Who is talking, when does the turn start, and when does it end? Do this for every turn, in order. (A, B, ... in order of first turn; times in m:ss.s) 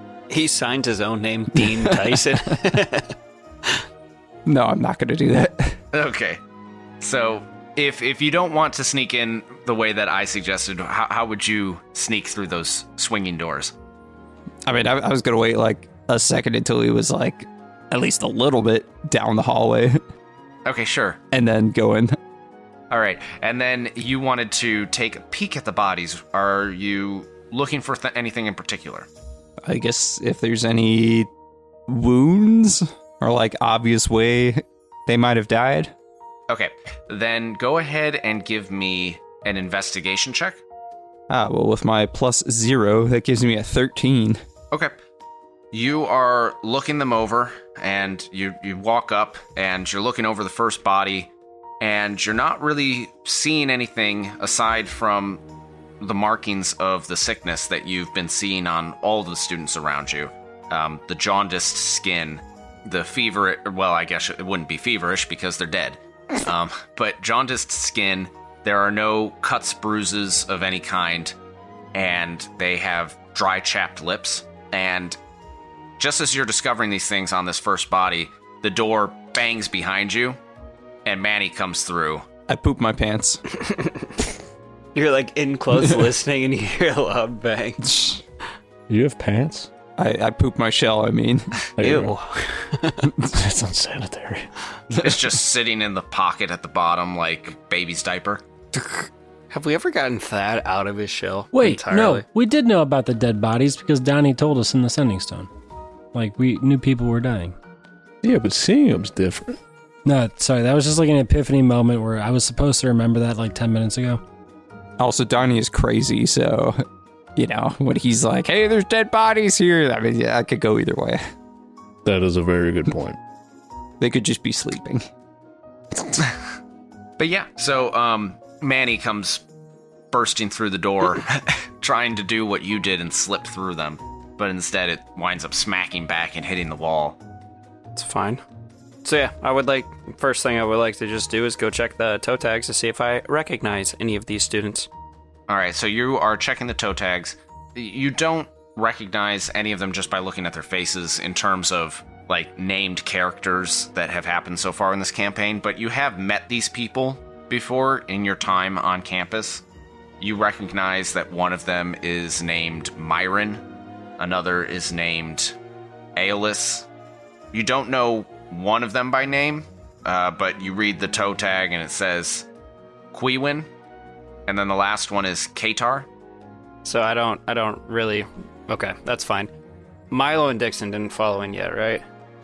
0:00.3-0:03.1 A
0:01.6-0:02.1 B
0:04.4-0:05.8 B
0:05.9-0:06.4 C
0:07.0-0:13.7 C
0:14.6-0:20.0 B
0:20.6-0:21.2 C
0:21.3-0:22.2 B
0:22.9-0:29.1 C
0:29.6-0:31.3 B
0:31.9-0:35.9 B
0:36.5-0:40.6 C
0:41.3-0:44.4 B
0:45.7-0:55.4 C
0:56.0-1:11.3 C
1:11.9-1:15.2 C
1:16.0-1:20.4 C
1:21.0-1:22.3 C
1:22.5-1:23.4 B
1:23.6-1:24.1 A
1:24.9-1:27.9 A
1:27.9-1:28.2 B
1:28.9-1:29.7 D
1:30.0-1:31.7 B
1:31.8-1:32.1 D
1:31.8-1:33.1 A
1:33.0-1:34.5 D
1:34.9-1:38.4 C
1:38.7-1:42.2 A
1:41.5-1:45.5 E
1:46.1-1:47.6 E
1:48.2-1:49.6 D
1:50.0-1:54.2 E
1:55.0-1:56.8 B
1:57.4-2:01.2 B
2:02.0-2:03.2 D
2:04.0-2:05.0 B
2:07.2-2:09.4 C
2:10.1-2:17.2 C
2:17.9-2:18.4 A
2:19.0-2:24.9 A
2:25.5-2:39.6 C
2:40.2-2:43.6 C
2:44.2-2:45.6 C
2:46.2-2:46.9 C
2:47.5-2:52.5 C
2:53.1-2:53.7 C
2:54.5-2:56.1 C
2:56.8-2:59.5 A
3:00.1-3:02.0 A